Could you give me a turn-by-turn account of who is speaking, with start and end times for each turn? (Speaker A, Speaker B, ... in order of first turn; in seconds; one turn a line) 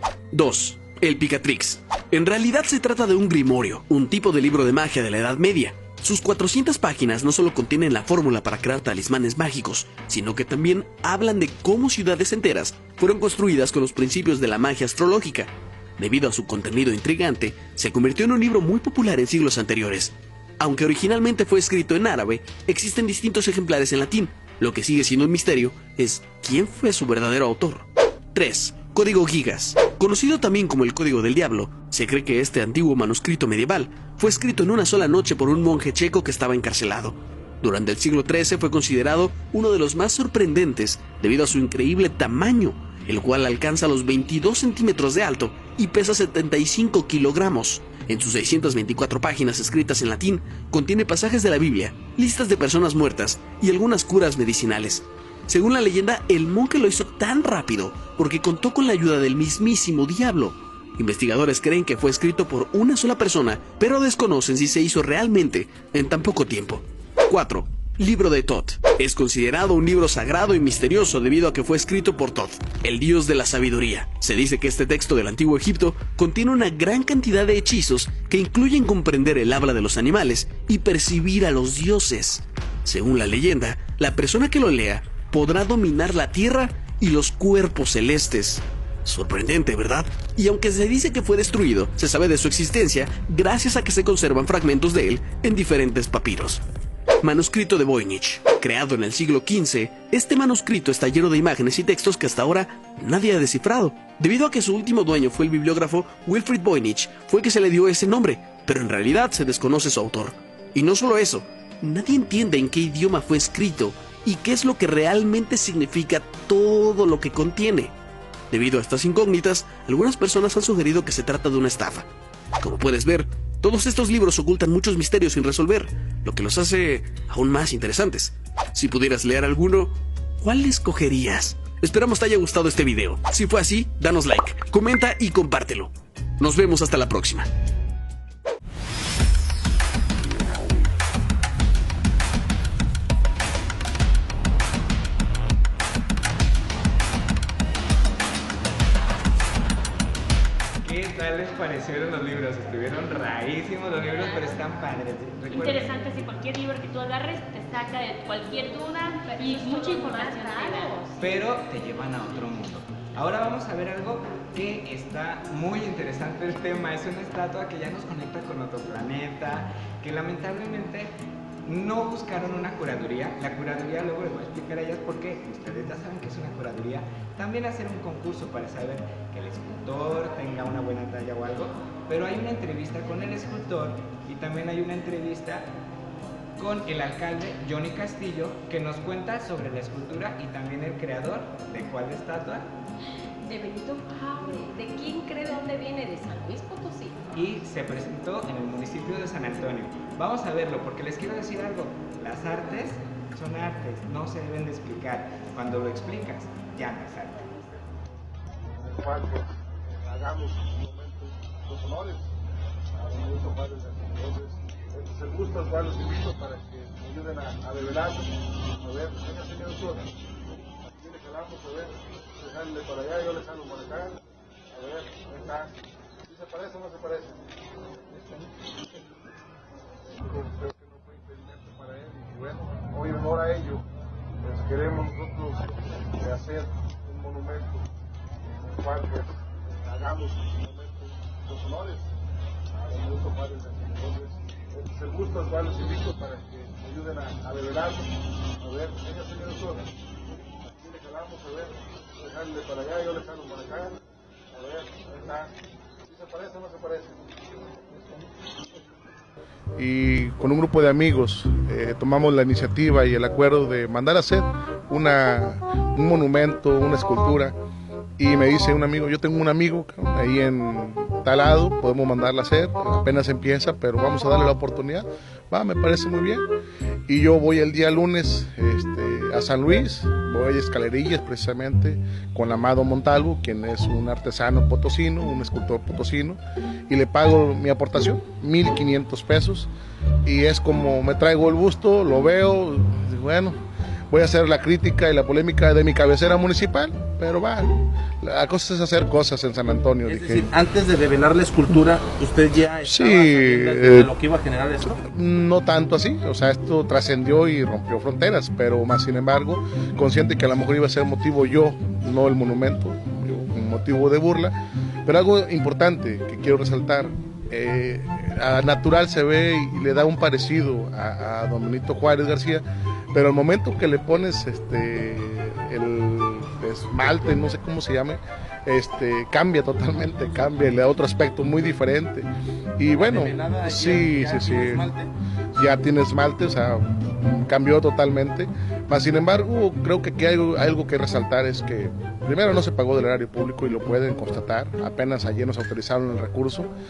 Speaker A: 0.3-96.6
Speaker A: 97.2-117.9
Speaker A: 118.5-122.1
Speaker A: 122.6-137.5
Speaker B: 150.8-156.0
Speaker C: 155.5-161.2
Speaker D: 159.3-161.2
Speaker B: 161.2-171.1
Speaker B: 171.6-185.7
Speaker B: 186.6-192.7
Speaker D: 193.4-197.4
Speaker B: 197.3-207.8
Speaker E: 207.9-208.2
Speaker E: 208.7-212.4
Speaker E: 212.9-220.1
Speaker E: 220.8-227.4
Speaker E: 228.0-229.1
Speaker E: 230.0-233.8
Speaker E: 234.4-237.8
Speaker E: 238.6-242.1
Speaker E: 242.8-253.9
Speaker E: 254.5-255.5
Speaker E: 256.0-258.6
Speaker F: 259.8-267.5
Speaker F: 268.2-276.4
Speaker F: 277.1-289.7
Speaker F: 290.2-293.6
Speaker F: 294.1-297.7
Speaker F: 298.2-300.6
Speaker G: 300.2-304.8
Speaker F: 302.8-304.1
Speaker F: 304.9-314.5
Speaker F: 315.1-332.2
Speaker F: 332.8-335.0
Speaker G: 333.3-333.7
Speaker G: 334.2-334.6
Speaker F: 335.6-346.7